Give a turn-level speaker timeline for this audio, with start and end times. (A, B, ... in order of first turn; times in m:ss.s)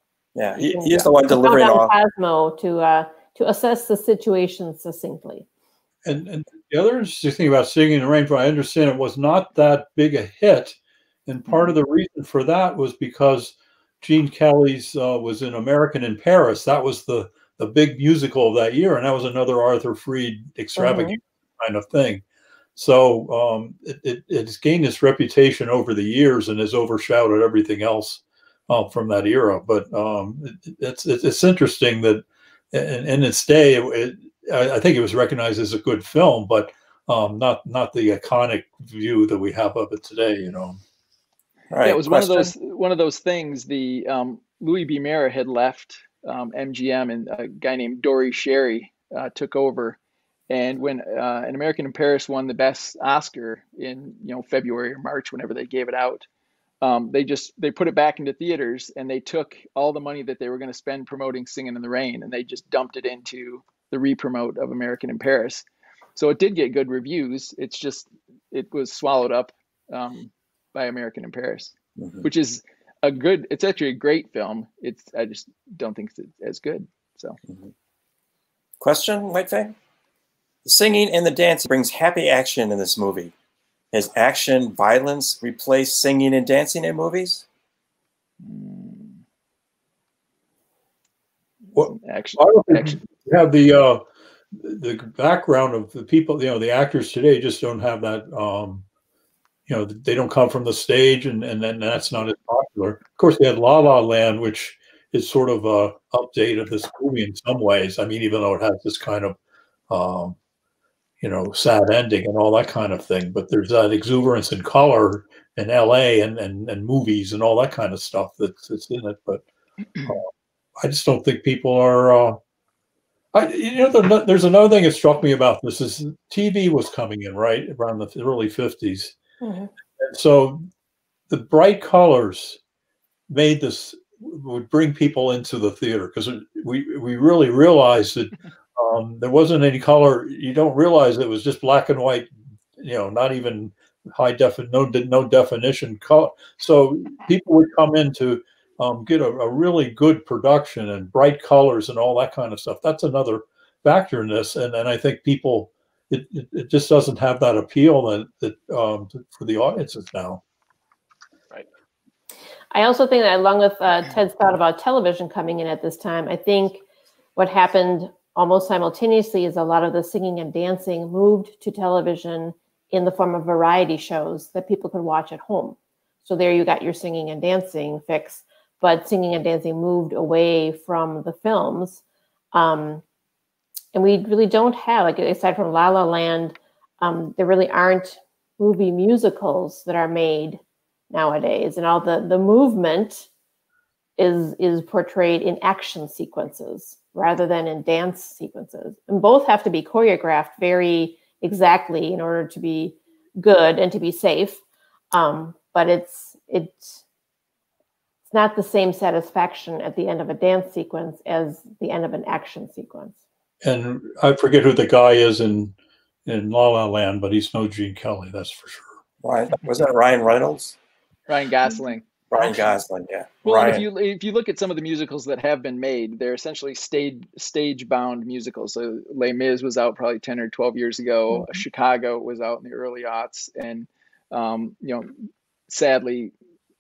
0:00.4-0:01.9 A
0:00.6-0:05.4 B
0:06.0-0:22.2 C
0:20.8-0:21.2 B
0:22.8-0:40.8 C
0:41.7-0:42.5 A
0:41.8-0:50.0 D
0:50.5-0:56.2 D
0:56.8-1:05.6 D
1:06.2-1:17.4 D
1:12.0-1:12.3 A
1:18.8-1:19.7 A
1:20.6-1:23.3 A
1:23.9-1:27.4 A
1:28.4-1:29.2 D
1:31.7-1:33.0 D
1:31.8-1:38.8 C
1:39.7-1:49.4 C
1:49.9-1:50.4 C
1:51.2-1:59.4 C
2:00.8-2:02.4 C
2:03.3-2:09.1 C
2:09.4-2:09.7 B
2:10.0-2:10.7 C
2:11.3-2:12.6 C
2:13.3-2:40.4 C
2:42.7-2:46.8 B
2:47.4-3:02.0 B
3:02.5-3:03.0 B
3:03.9-3:13.3 B
3:14.2-3:24.6 B
3:25.1-3:27.0 B
3:28.3-3:33.2 B
3:33.6-3:35.7 C
3:36.2-3:38.9 C
3:39.2-3:40.7 A
3:41.3-3:42.6 D
3:42.3-3:43.8 A
3:43.4-3:55.1 D
3:55.7-3:56.3 D